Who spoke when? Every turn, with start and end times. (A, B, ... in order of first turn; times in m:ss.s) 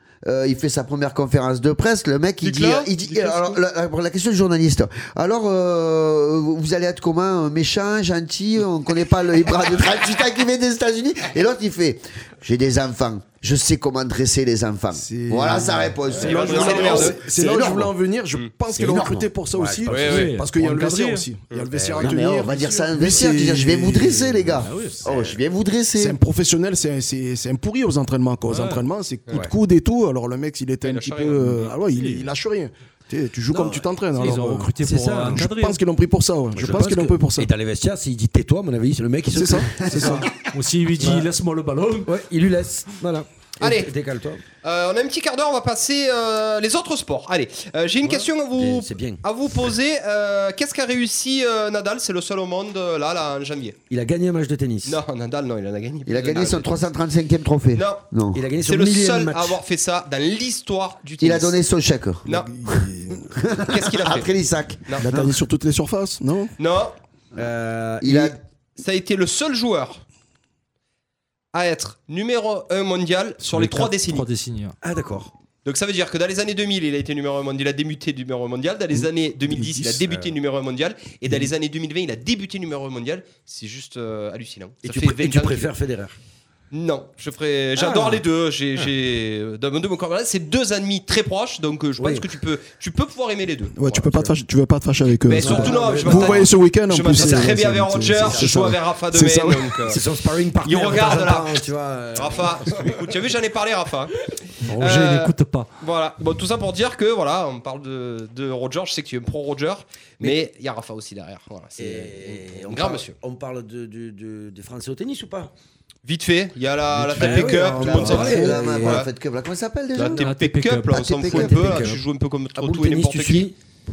0:00.2-0:17.9 A
0:02.4-0:02.9 B
0:14.9-0:25.0 C
0:16.2-0:17.2 B
0:16.4-0:17.1 D
0:18.8-0:19.3 A
0:18.8-0:20.3 D
0:19.9-0:20.3 B
0:19.9-0:21.3 E
0:21.7-0:22.2 D
0:22.0-0:26.2 A
0:24.6-0:25.0 E
0:26.0-0:37.5 C
0:28.5-0:28.8 E
0:30.8-0:31.7 B
0:31.9-0:32.3 E
0:33.5-0:33.9 D
0:34.2-0:35.8 E
0:34.8-0:35.5 D
0:36.5-0:40.3 D
0:39.3-0:40.3 C
0:40.5-0:42.1 E
0:41.0-0:41.3 D
0:42.0-0:44.4 D
0:43.6-0:43.9 B
0:44.6-0:53.8 B
0:48.0-0:49.2 D
0:53.9-0:55.0 D
0:54.8-0:56.7 B
0:56.0-0:58.4 A
0:57.7-0:58.0 B
0:58.3-0:59.6 D
0:58.6-1:01.6 B
1:01.2-1:05.4 A
1:02.2-1:03.4 C
1:03.7-1:04.3 B
1:04.9-1:06.5 C
1:06.6-1:06.9 B
1:07.3-1:08.4 D
1:08.0-1:08.4 A
1:08.8-1:10.0 B
1:11.5-1:14.2 B
1:13.4-1:14.8 E
1:14.8-1:15.3 D
1:15.6-1:25.7 B
1:19.8-1:20.3 D
1:24.8-1:26.2 D
1:26.7-1:34.0 B
1:27.8-1:28.2 D
1:32.0-1:32.2 D
1:33.8-1:39.8 C
1:34.0-1:34.4 D
1:35.2-1:40.0 B
1:35.4-1:36.5 D
1:37.1-1:37.6 D
1:38.2-1:38.6 D
1:39.8-1:43.1 D
1:40.6-1:44.1 B
1:44.6-1:45.7 E
1:44.8-1:53.1 B
1:51.8-1:55.5 D
1:56.0-1:59.1 B
1:57.0-1:58.4 E
1:57.0-1:59.0 D
1:57.6-2:00.2 A
2:00.0-2:01.2 E
2:00.0-2:03.5 B
2:00.8-2:01.9 A
2:01.3-2:02.0 D
2:02.6-2:03.5 D